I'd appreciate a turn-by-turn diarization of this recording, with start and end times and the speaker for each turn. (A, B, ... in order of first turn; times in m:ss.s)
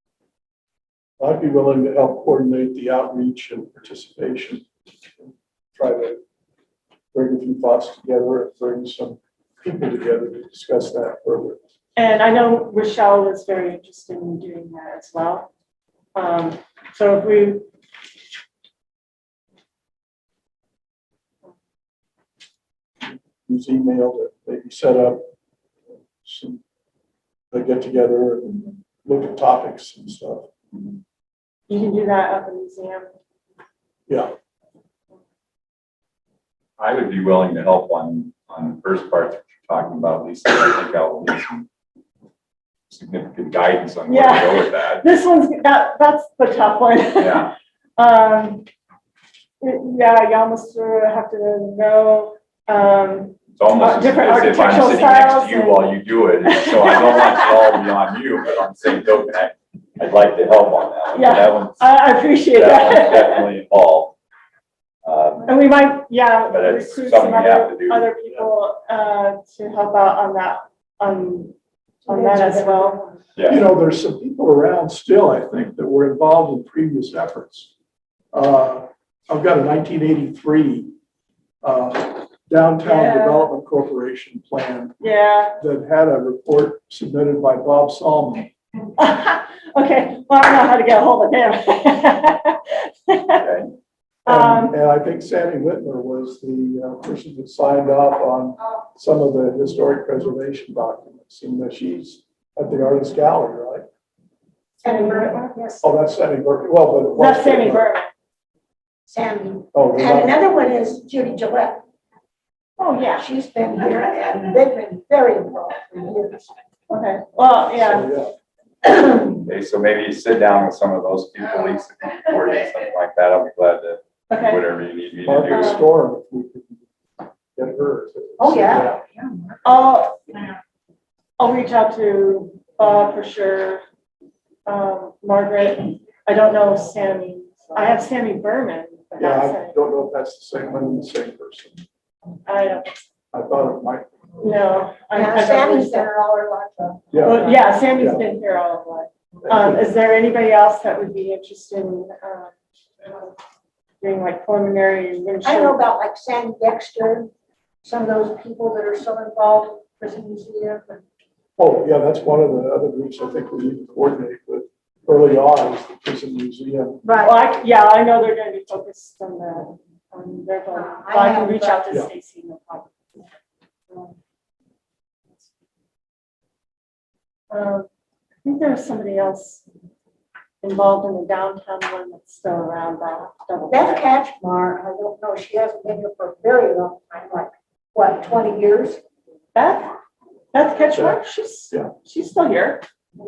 0:01.2-0:04.7 A
0:05.2-0:06.2 A
0:07.1-0:11.6 A
0:12.0-0:15.5 B
0:16.1-0:17.7 B
0:23.0-0:25.3 A
0:26.2-0:26.6 A
0:27.5-0:30.5 A
0:31.7-0:33.1 B
0:34.1-0:34.3 A
0:36.8-0:41.7 C
0:42.9-0:45.0 C
0:44.1-0:48.7 B
0:47.2-0:47.5 C
0:49.6-0:57.7 B
0:53.6-1:01.9 C
1:01.1-1:03.5 B
1:02.5-1:04.2 C
1:05.0-1:05.6 C
1:05.5-1:11.6 B
1:06.5-1:08.1 C
1:12.1-1:13.2 D
1:12.1-1:13.0 B
1:13.4-1:13.6 C
1:13.5-1:17.7 A
1:18.3-1:20.9 A
1:21.6-1:25.0 A
1:22.8-1:23.5 B
1:25.0-1:25.6 B
1:25.6-1:28.5 A
1:29.0-1:33.5 B
1:33.4-1:33.7 C
1:34.2-1:34.8 B
1:34.2-1:43.9 A
1:44.8-1:45.8 D
1:44.8-1:45.8 B
1:45.8-1:47.9 A
1:47.2-1:48.1 B
1:49.1-1:51.8 D
1:49.7-1:50.3 A
1:52.8-1:53.3 B
1:53.2-1:56.5 D
1:56.9-1:58.1 B
1:57.8-1:58.3 A
1:58.9-1:59.2 D
1:59.4-2:05.9 C
2:04.3-2:04.6 B
2:05.2-2:06.8 A
2:05.5-2:05.8 B
2:07.5-2:09.0 A
2:08.4-2:09.6 D
2:09.6-2:10.2 B
2:11.4-2:13.8 B
2:14.7-2:19.8 B
2:19.2-2:21.8 A
2:22.5-2:23.1 B
2:23.3-2:24.1 A
2:24.4-2:26.1 B
2:25.2-2:27.7 D
2:27.1-2:27.4 A
2:27.2-2:32.5 B
2:27.9-2:28.2 A
2:29.4-2:29.9 A
2:34.0-2:35.8 B
2:35.4-2:37.3 D
2:37.8-2:41.0 D
2:41.6-2:47.0 A
2:47.0-2:47.4 D
2:47.2-2:52.9 B
2:50.7-2:51.9 D
2:57.5-2:57.9 B
2:58.4-2:59.6 B
3:00.6-3:04.0 B
3:03.7-3:09.0 D
3:09.5-3:09.9 B
3:10.5-3:12.8 B
3:10.9-3:11.9 A